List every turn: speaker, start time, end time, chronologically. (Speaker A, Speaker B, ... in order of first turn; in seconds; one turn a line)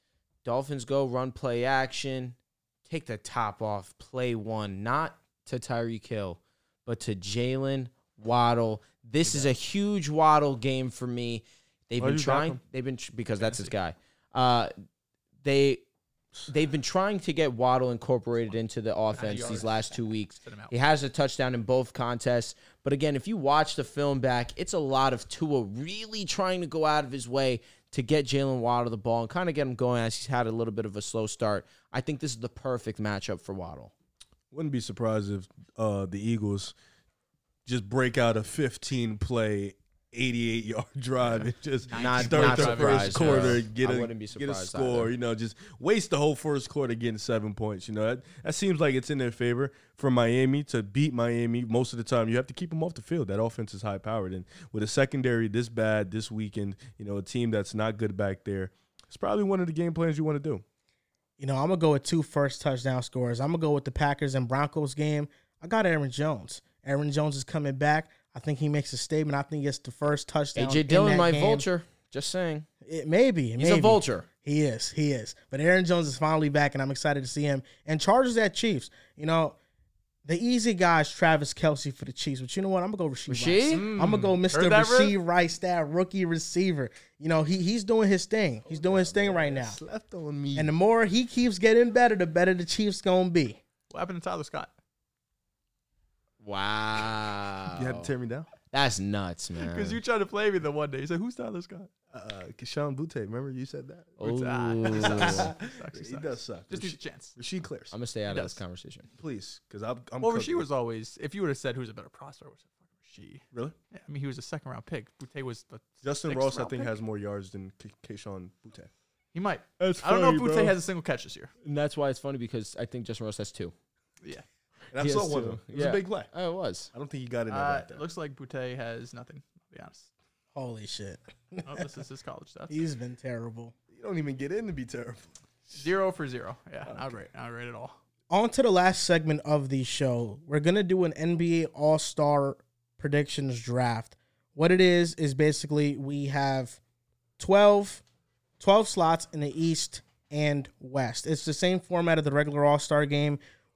Speaker A: 0.4-14.7
Speaker B: 12.0-12.6
Speaker C: 13.4-13.7
Speaker A: 15.4-15.8
Speaker A: 16.5-33.9
Speaker C: 19.1-20.7
Speaker B: 34.5-36.7
Speaker B: 37.6-60.6
Speaker C: 41.3-43.6
Speaker A: 41.9-45.1
Speaker D: 61.4-71.7
Speaker A: 70.5-72.7
Speaker D: 72.8-79.5
Speaker A: 73.6-74.2
Speaker D: 80.2-89.8
Speaker A: 83.3-83.9
Speaker C: 83.7-85.1
Speaker B: 88.7-90.7
Speaker D: 90.5-93.6
Speaker C: 93.9-94.7
Speaker A: 96.4-98.1
Speaker B: 97.7-98.5
Speaker A: 98.7-100.0
Speaker C: 99.6-101.9
Speaker B: 102.1-104.2
Speaker A: 104.2-105.5
Speaker C: 104.2-107.3
Speaker B: 104.9-107.9
Speaker A: 107.9-109.1
Speaker C: 108.3-108.6
Speaker B: 109.2-110.6
Speaker C: 110.2-116.9
Speaker B: 116.0-118.9
Speaker C: 119.3-121.5
Speaker B: 119.8-120.8
Speaker A: 121.6-123.7
Speaker B: 124.9-126.3
Speaker A: 125.0-126.9
Speaker B: 126.9-128.0
Speaker C: 127.5-130.1
Speaker D: 130.5-131.8
Speaker C: 131.7-132.7
Speaker D: 132.7-133.7
Speaker B: 133.9-135.8
Speaker C: 135.7-138.0
Speaker B: 136.9-137.2
Speaker D: 138.3-146.8
Speaker D: 147.4-148.0
Speaker D: 148.6-153.4